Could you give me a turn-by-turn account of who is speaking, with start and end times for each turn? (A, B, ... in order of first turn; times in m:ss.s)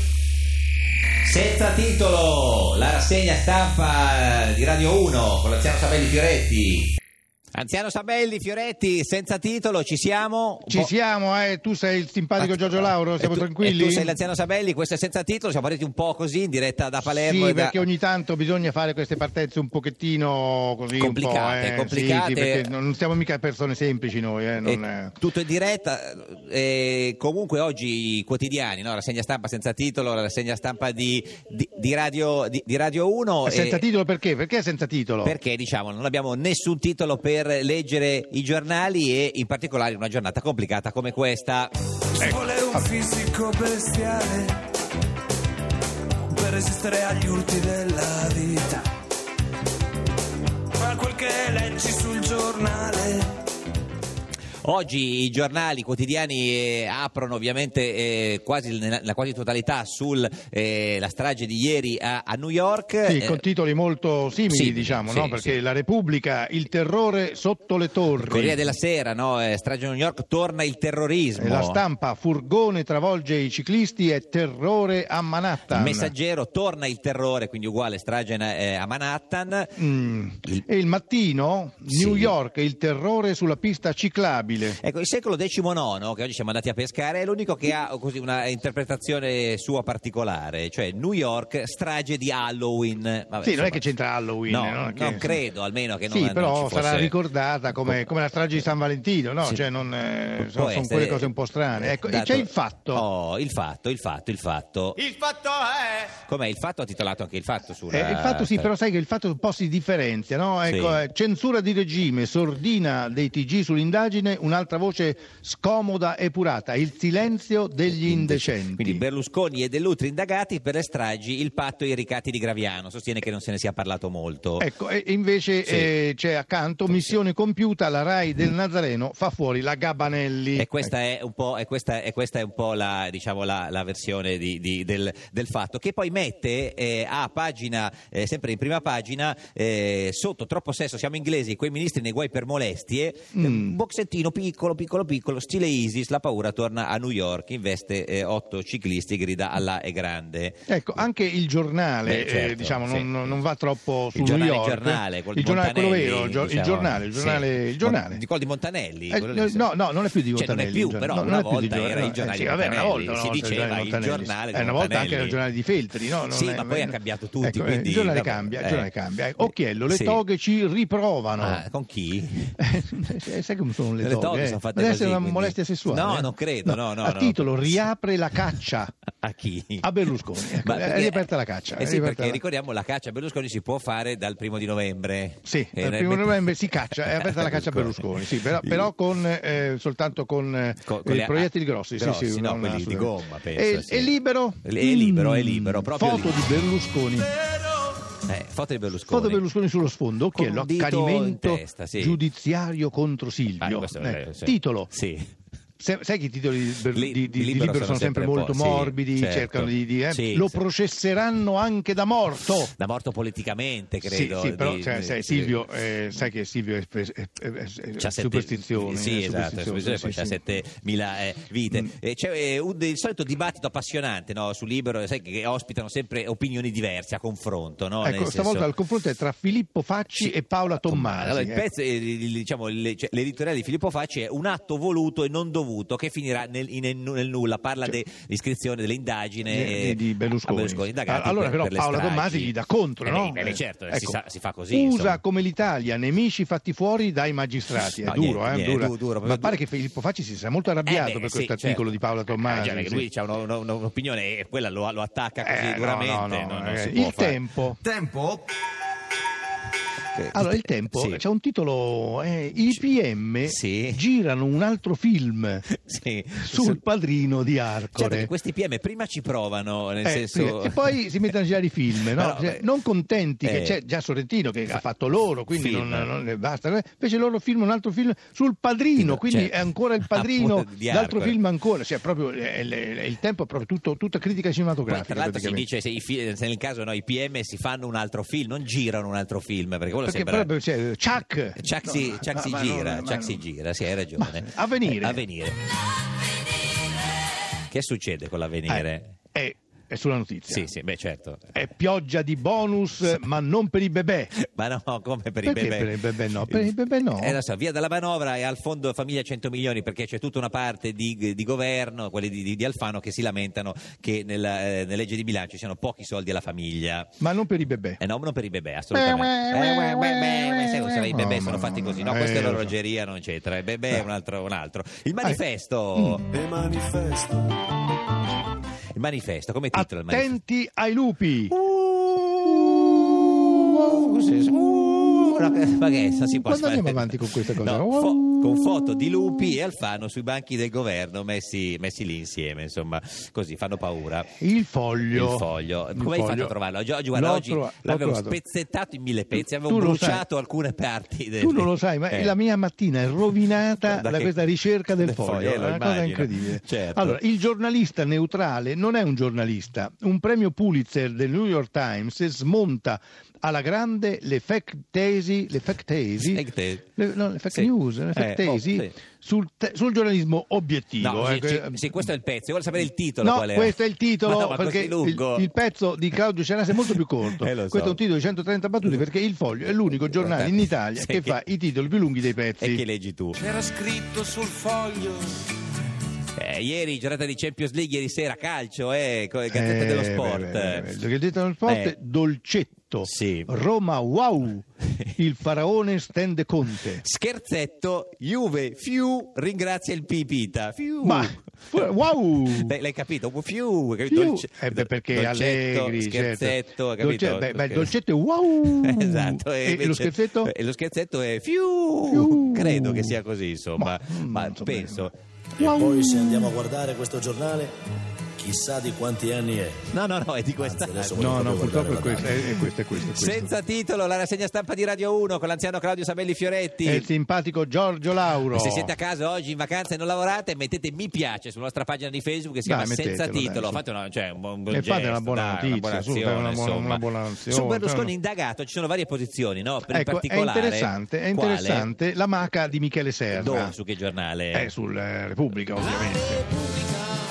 0:01.2-0:06.9 A
0:07.5-0:10.9 A
0:10.7-0:14.2 B
0:12.4-0:17.8 A
0:17.0-0:25.2 B
0:21.0-0:22.7 A
0:24.6-0:33.8 A
0:33.4-0:35.4 B
0:35.2-0:41.7 A
0:42.2-0:44.6 C
0:42.2-0:42.9 B
0:46.3-0:48.9 C
0:50.8-0:53.3 C
0:54.6-1:03.4 A
1:03.0-1:08.7 B
1:04.5-1:05.6 A
1:08.2-1:11.8 A
1:11.4-1:16.1 B
1:15.7-1:19.8 A
1:19.8-1:24.8 B
1:21.9-1:22.4 A
1:24.7-1:33.9 A
1:33.4-1:35.4 B
1:34.5-1:37.1 A
1:36.1-1:43.0 B
1:40.4-1:48.7 A
1:47.9-1:59.0 B
1:50.6-1:51.0 A
1:57.9-2:04.7 A
2:04.6-2:10.9 B
2:05.6-2:05.9 A
2:06.9-2:07.2 A
2:10.6-2:31.0 A
2:23.3-2:23.8 B
2:30.7-2:38.2 B
2:32.0-2:33.4 A
2:34.1-2:39.7 A
2:39.1-2:51.6 B
2:40.3-2:45.4 A
2:46.3-2:50.2 A
2:51.4-2:52.6 A
2:52.6-2:58.9 B
2:54.0-2:57.8 A
2:59.2-2:59.9 A
2:59.8-3:02.4 B
3:00.6-3:08.9 A
3:05.4-3:17.3 B
3:10.8-3:16.4 A
3:18.2-3:19.4 A
3:19.1-3:24.9 B
3:20.3-3:22.2 A
3:23.6-3:25.3 A
3:25.8-3:32.7 B
3:26.9-3:30.6 A
3:32.7-3:35.6 A
3:34.0-3:40.6 B
3:38.0-3:48.7 A
3:48.0-3:51.6 B
3:50.2-4:05.2 A
3:59.4-4:04.2 B
4:04.7-4:13.1 B
4:07.9-4:09.6 A
4:10.8-4:18.4 A
4:15.4-4:17.8 B
4:20.1-4:21.2 A
4:20.3-4:25.6 B
4:23.4-4:24.0 A
4:25.7-4:26.8 A
4:26.4-4:28.3 B
4:27.9-4:31.3 A
4:30.0-4:45.7 B
4:32.0-4:32.6 A
4:33.4-4:33.8 A
4:35.5-4:36.1 A
4:39.0-4:41.4 A
4:44.8-4:50.5 A
4:50.0-4:53.4 B
4:51.6-4:55.6 A
4:54.1-4:55.2 B
4:57.7-4:59.1 A
4:58.7-5:00.7 B
5:00.5-5:01.5 A
5:01.5-5:04.3 B
5:04.3-5:17.1 A
5:05.4-5:07.4 B
5:17.2-5:18.0 B
5:18.0-5:26.2 A
5:18.9-5:22.8 B
5:25.9-5:26.2 B
5:26.3-5:27.6 D
5:28.9-5:30.4 A
5:29.7-5:31.5 B
5:31.5-5:44.3 A
5:36.4-5:39.3 B
5:44.4-5:46.5 B
5:45.1-5:52.3 A
5:47.1-5:48.4 B
5:49.3-5:50.2 B
5:51.4-6:06.4 B
5:53.8-5:54.3 A
5:54.9-5:57.2 A
6:06.2-6:06.9 A
6:07.0-6:12.1 B
6:07.5-6:09.0 A
6:11.0-6:15.5 A
6:13.2-6:22.8 B
6:17.3-6:18.0 A
6:20.1-6:21.4 A
6:22.6-6:23.4 A
6:23.4-6:25.4 C
6:26.4-6:30.9 A
6:29.5-6:37.0 B
6:31.6-6:31.9 A
6:33.0-6:33.5 A
6:34.8-6:35.1 A
6:37.0-6:41.9 A
6:41.0-6:42.8 B
6:42.4-6:47.9 A
6:44.1-6:50.5 B
6:48.8-6:55.1 A
6:52.1-6:53.2 B
6:53.8-6:56.5 B
6:55.6-6:57.7 D
6:58.4-6:59.8 D
6:59.9-7:01.6 A
7:00.6-7:02.4 D
7:01.2-7:03.5 B
7:02.9-7:07.1 A
7:06.8-7:08.9 B
7:08.5-7:21.9 A
7:12.6-7:13.8 B
7:14.7-7:18.1 B
7:19.9-7:23.8 B
7:23.3-7:24.7 A
7:24.5-7:26.4 B